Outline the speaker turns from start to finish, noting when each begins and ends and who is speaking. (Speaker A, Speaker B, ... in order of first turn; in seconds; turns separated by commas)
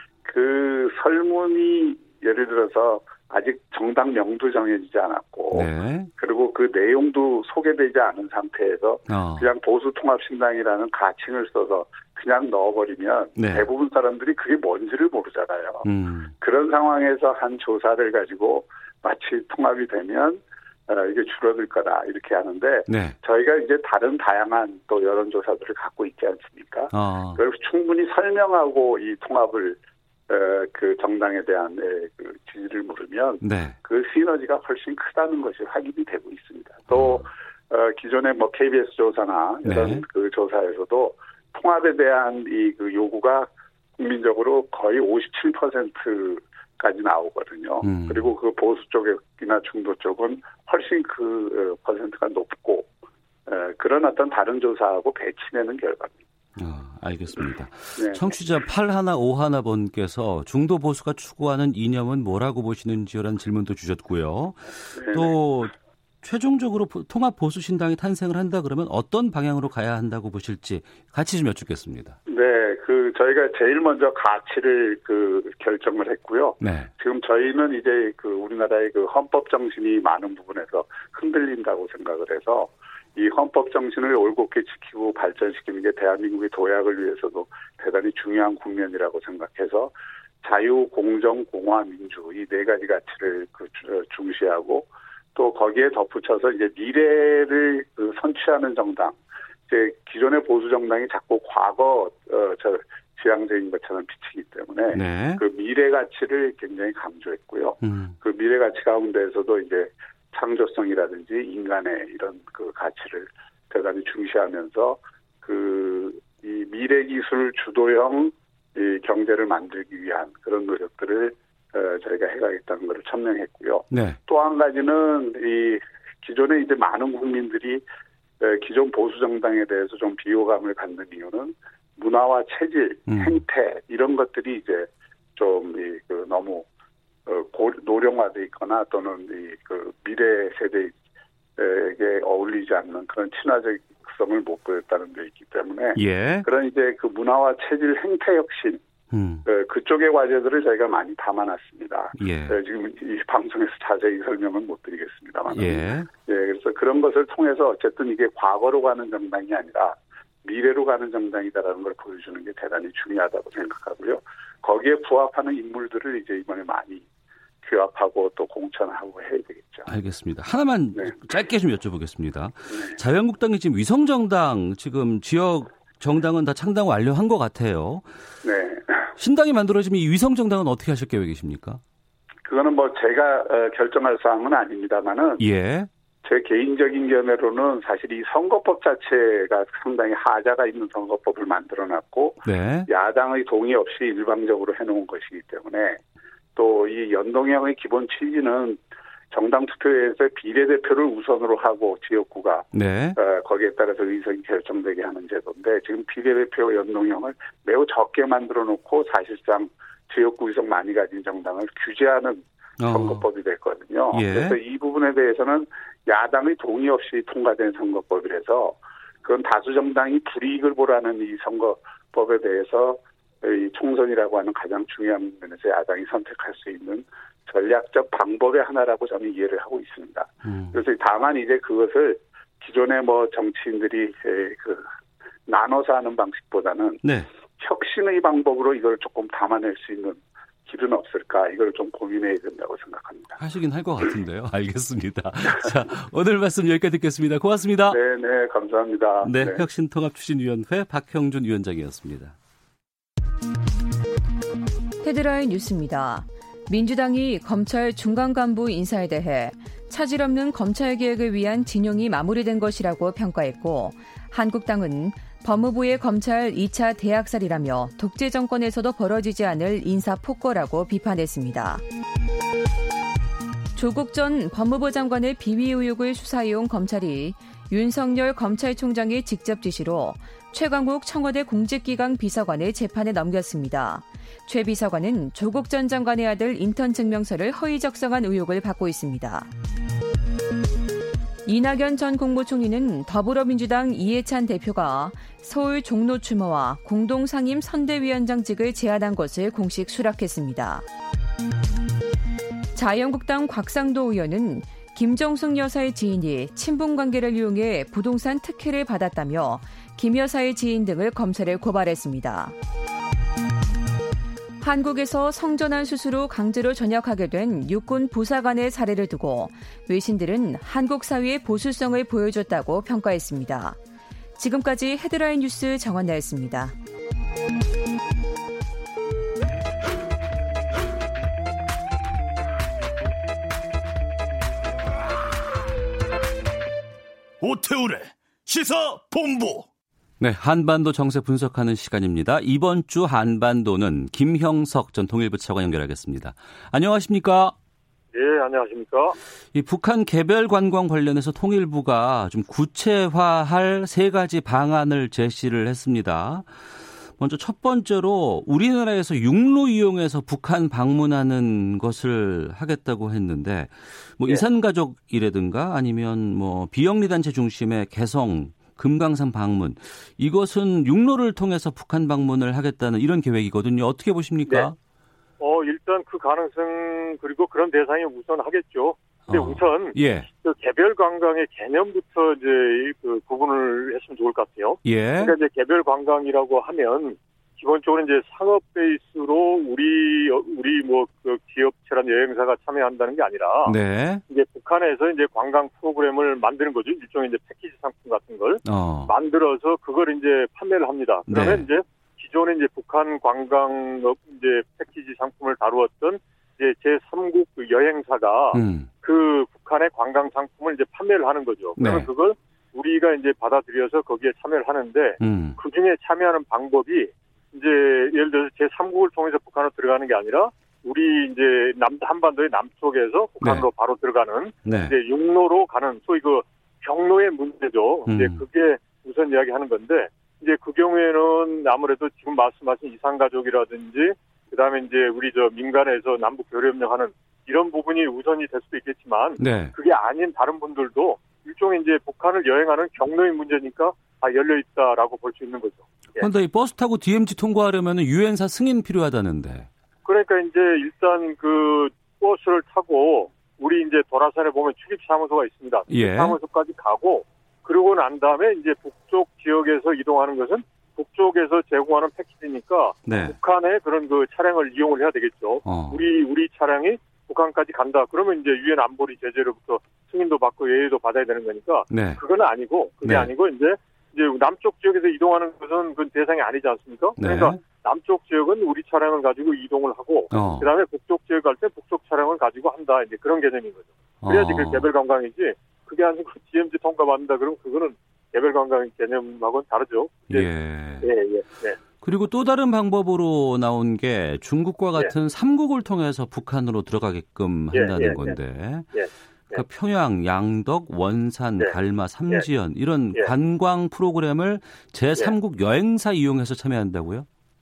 Speaker A: 0.3-15.9, Speaker B: 5.5-6.1, Speaker B: 9.1-9.5, Speaker B: 13.4-13.7, Speaker B: 15.8-16.3, Speaker A: 16.4-52.9, Speaker B: 22.9-23.2, Speaker B: 26.9-27.4, Speaker B: 33.4-33.8, Speaker B: 36.9-37.2, Speaker B: 39.7-40.0, Speaker B: 47.8-48.3, Speaker A: 53.5-56.1, Speaker B: 56.6-72.2, Speaker A: 58.0-58.3, Speaker A: 65.0-65.4, Speaker A: 72.3-99.2, Speaker B: 76.6-76.9, Speaker A: 99.7-127.8, Speaker B: 104.9-105.4, Speaker B: 107.8-108.2, Speaker B: 123.9-124.2, Speaker A: 128.4-136.7, Speaker B: 133.1-133.4, Speaker A: 137.3-140.9, Speaker A: 141.6-148.8, Speaker B: 146.0-146.5, Speaker B: 149.1-149.4, Speaker A: 149.5-167.1, Speaker B: 152.2-152.6, Speaker B: 155.5-156.1, Speaker A: 167.6-169.9, Speaker B: 169.9-178.1, Speaker A: 172.7-173.0, Speaker A: 178.4-179.1, Speaker B: 179.2-181.8, Speaker A: 182.4-185.4, Speaker B: 185.4-185.9, Speaker A: 186.2-196.0, Speaker B: 192.4-192.9, Speaker A: 196.6-198.8, Speaker A: 199.3-234.9, Speaker B: 202.7-203.2, Speaker B: 212.8-213.2, Speaker B: 214.1-214.6, Speaker B: 230.4-230.8, Speaker A: 235.5-237.0, Speaker B: 237.0-237.3, Speaker A: 237.6-243.4, Speaker B: 243.4-248.0, Speaker A: 247.9-249.6, Speaker B: 249.2-252.3, Speaker C: 255.0-271.8, Speaker C: 273.8-289.5, Speaker C: 291.5-300.9, Speaker C: 302.8-312.6, Speaker C: 314.6-323.8, Speaker C: 324.4-326.8, Speaker D: 337.4-339.7, Speaker B: 340.2-347.6, Speaker E: 348.1-349.2, Speaker B: 349.5-356.5, Speaker B: 357.2-374.8, Speaker E: 375.4-393.8, Speaker B: 379.3-380.3, Speaker B: 384.9-385.4, Speaker B: 393.6-394.2, Speaker E: 394.3-446.3, Speaker B: 398.6-399.1, Speaker B: 401.3-401.7, Speaker B: 408.5-408.9, Speaker B: 411.8-412.1, Speaker B: 415.2-415.6, Speaker B: 423.4-423.7, Speaker B: 424.7-425.0, Speaker B: 428.1-428.4, Speaker B: 439.4-439.7, Speaker B: 446.2-449.7, Speaker E: 450.1-490.5, Speaker B: 455.9-456.4, Speaker B: 463.1-463.4, Speaker B: 465.6-466.1, Speaker B: 471.9-472.2, Speaker B: 473.0-473.3, Speaker B: 477.2-477.6, Speaker B: 480.3-480.7, Speaker B: 484.2-484.9, Speaker B: 490.3-491.1, Speaker E: 491.0-491.8, Speaker B: 492.0-498.9, Speaker E: 497.7-498.4, Speaker E: 498.9-499.6, Speaker B: 499.5-507.3